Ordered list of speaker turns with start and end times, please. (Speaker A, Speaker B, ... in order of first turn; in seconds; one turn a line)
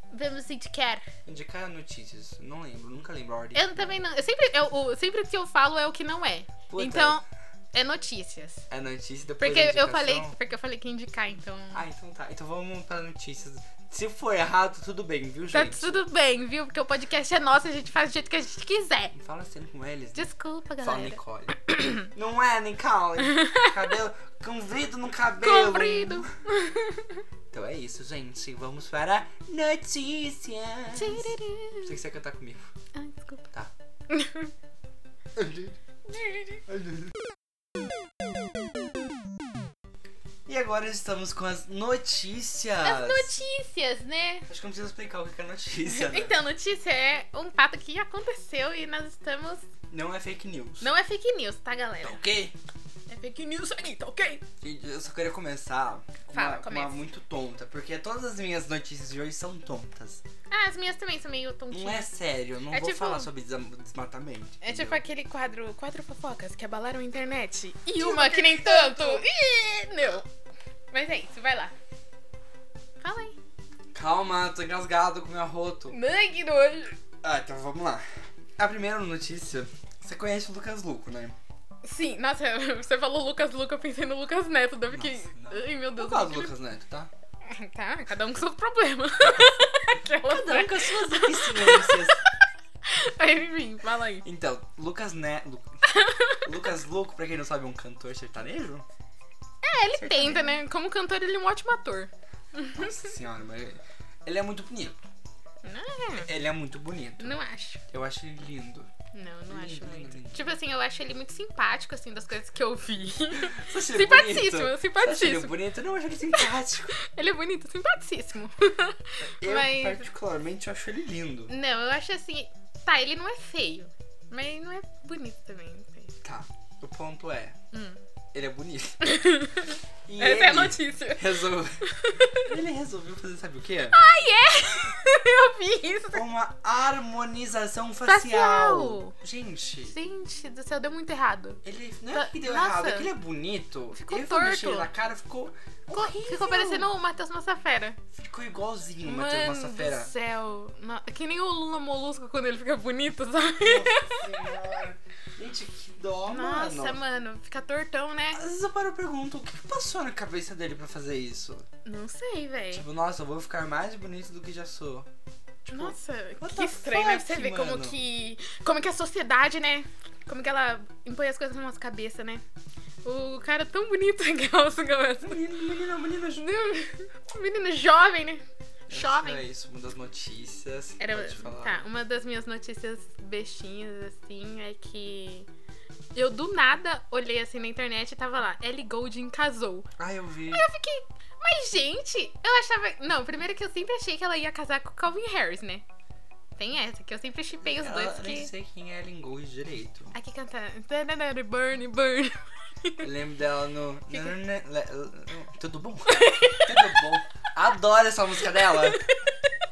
Speaker A: 0.1-1.1
Speaker B: 1.2-4.0
Speaker A: 3.5-8.6
Speaker B: 6.7-7.2
Speaker B: 8.7-10.3
Speaker A: 9.4-11.8
Speaker B: 11.7-16.0
Speaker A: 15.5-19.1
Speaker B: 19.1-20.3
Speaker A: 20.1-22.1
Speaker B: 20.8-26.3
Speaker A: 23.2-23.9
Speaker A: 25.4-27.2
Speaker B: 27.5-32.7
Speaker A: 30.9-32.0
Speaker A: 32.9-33.5
Speaker A: 34.1-34.5
Speaker B: 35.4-35.8
Speaker A: 36.0-36.6
Speaker B: 36.6-37.2
Speaker B: 40.5-43.3
Speaker A: 42.8-44.5
Speaker B: 44.5-46.4
Speaker A: 45.8-49.6
Speaker B: 49.9-50.9
Speaker A: 50.8-52.2
Speaker B: 52.0-52.5
Speaker A: 53.1-54.4
Speaker B: 54.6-60.2
Speaker A: 56.3-57.0
Speaker A: 60.5-62.1
Speaker B: 61.7-65.0
Speaker A: 62.7-63.3
Speaker A: 64.6-70.3
Speaker B: 67.9-69.2
Speaker A: 70.9-71.7
Speaker A: 73.0-73.3
Speaker B: 73.9-76.0
Speaker A: 75.9-77.0
Speaker B: 77.2-78.0
Speaker B: 78.6-81.4
Speaker A: 81.8-86.5
Speaker B: 84.9-87.1
Speaker A: 87.4-94.2
Speaker B: 89.2-89.6
Speaker B: 90.2-92.2
Speaker B: 94.2-95.8
Speaker A: 95.8-96.5
Speaker B: 96.4-98.8
Speaker A: 99.6-103.1
Speaker B: 100.0-100.6
Speaker B: 102.7-105.0
Speaker A: 105.6-106.3
Speaker B: 106.1-107.3
Speaker A: 107.2-107.8
Speaker B: 107.9-108.9
Speaker A: 109.1-115.6
Speaker B: 109.5-110.5
Speaker B: 113.4-117.0
Speaker A: 116.3-120.1
Speaker B: 119.2-121.5
Speaker A: 121.5-126.2
Speaker B: 126.2-127.6
Speaker A: 127.7-128.0
Speaker B: 128.3-129.0
Speaker A: 129.0-132.5
Speaker B: 130.1-134.0
Speaker A: 133.9-136.2
Speaker B: 136.1-139.9
Speaker A: 138.0-139.1
Speaker A: 139.9-141.6
Speaker B: 141.6-146.9
Speaker A: 142.1-143.1
Speaker A: 143.9-144.9
Speaker A: 145.9-148.0
Speaker B: 148.1-150.1
Speaker A: 149.0-154.8
Speaker B: 153.6-157.0
Speaker A: 156.3-158.4
Speaker B: 158.3-161.7
Speaker A: 161.8-162.8
Speaker B: 162.7-165.1
Speaker B: 165.6-168.0
Speaker A: 165.7-172.4
Speaker A: 173.0-175.4
Speaker B: 175.2-176.5
Speaker A: 176.3-179.4
Speaker B: 178.9-181.8
Speaker A: 181.0-185.5
Speaker A: 186.1-189.9
Speaker B: 190.0-190.6
Speaker A: 190.5-195.8
Speaker A: 196.6-198.5
Speaker B: 197.6-200.1
Speaker A: 200.1-203.1
Speaker B: 203.0-209.0
Speaker A: 204.1-204.3
Speaker A: 206.1-207.1
Speaker A: 208.5-209.5